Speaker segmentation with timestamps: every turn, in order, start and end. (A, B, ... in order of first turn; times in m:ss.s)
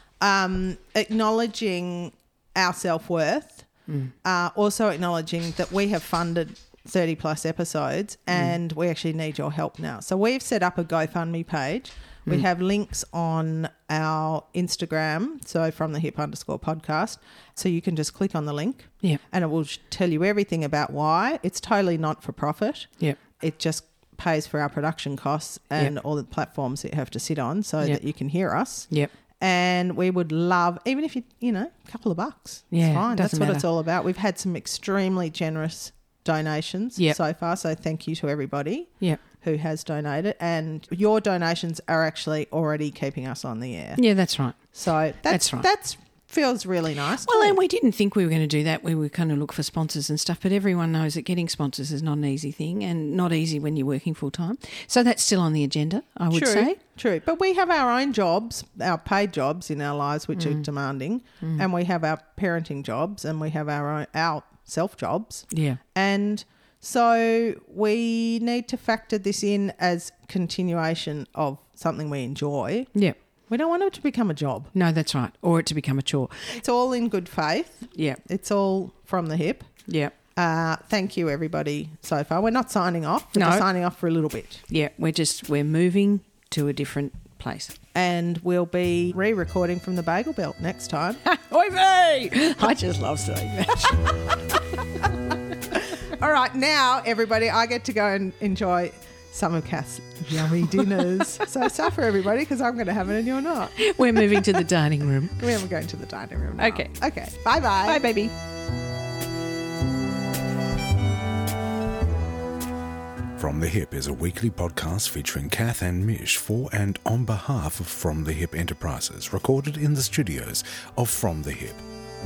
0:00.2-0:03.7 A
0:03.9-0:04.1 B
0:04.2-0:44.0 A
0:32.7-0:33.6 B
0:44.0-0:45.7 B
0:44.7-0:47.6 A
0:47.2-0:56.8 B
0:56.3-1:12.9 A
1:00.4-1:00.7 B
1:01.4-1:01.7 B
1:05.5-1:05.8 B
1:13.5-1:14.7 A
1:14.7-1:16.6 B
1:16.5-1:19.7 A
1:17.9-1:18.2 B
1:19.9-1:20.1 B
1:20.4-1:24.6 A
1:23.4-1:23.7 B
1:24.7-1:27.8 B
1:27.9-1:31.2 A
1:31.2-1:34.2 B
1:35.8-1:44.6 A
1:43.8-1:45.4 B
1:45.4-1:48.0 A
1:46.6-1:46.9 B
1:47.8-1:48.3 B
1:53.4-2:01.8 C